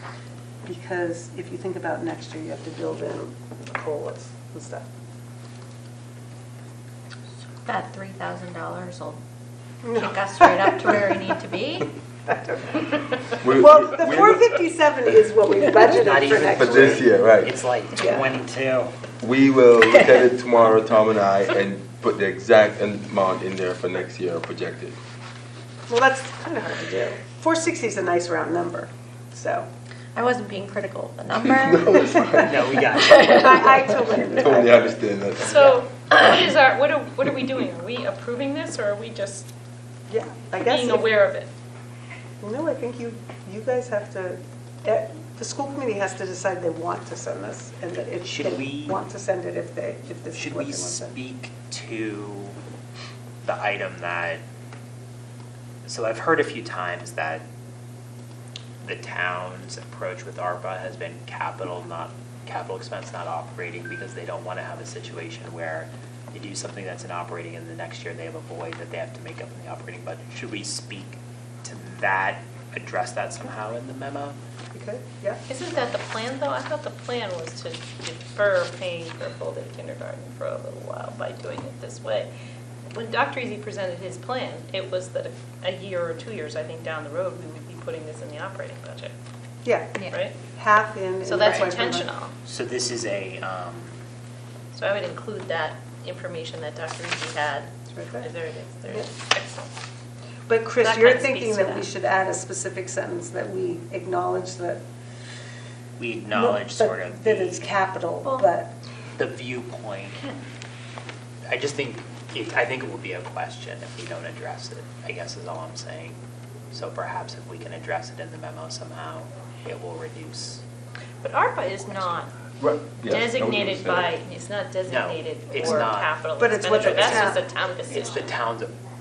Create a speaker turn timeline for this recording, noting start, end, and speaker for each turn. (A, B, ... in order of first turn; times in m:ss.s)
0:00.6-0:04.9 A
0:07.6-0:09.2 B
0:09.8-0:11.2 A
0:09.9-0:11.9 B
0:12.3-0:17.1 A
0:13.4-0:14.4 C
0:15.8-0:18.9 D
0:16.6-0:17.5 C
0:17.9-0:18.3 A
0:19.2-0:25.0 C
0:25.9-0:29.7 A
0:30.1-0:33.8 B
0:31.6-0:32.8 C
0:32.4-0:33.7 D
0:33.0-0:35.0 A
0:34.3-0:35.6 C
0:35.4-0:39.5 E
0:40.1-0:41.1 A
0:40.6-0:41.5 E
0:42.4-0:51.2 A
0:48.2-0:49.0 D
0:50.3-0:52.6 D
0:53.4-0:54.4 D
0:55.8-0:57.4 D
0:58.8-1:14.4 D
1:14.7-1:15.4 A
1:15.5-1:22.3 E
1:22.9-1:29.1 E
1:29.6-1:30.0 A
1:30.1-1:30.4 E
1:30.5-1:32.1 A
1:31.2-1:32.3 E
1:31.4-1:31.7 D
1:32.4-1:34.0 D
1:34.7-1:39.7 E
1:37.9-1:38.3 A
1:38.9-1:39.1 A
1:40.5-1:44.8 A
1:40.8-1:41.9 E
1:46.0-1:47.7 D
1:46.3-1:48.8 A
1:49.2-1:50.2 D
1:51.5-1:56.2 D
1:56.7-2:00.6 D
2:01.2-2:02.3 E
2:02.6-2:04.1 C
2:03.0-2:08.3 E
2:04.9-2:06.2 D
2:06.4-2:07.4 A
2:06.7-2:08.7 D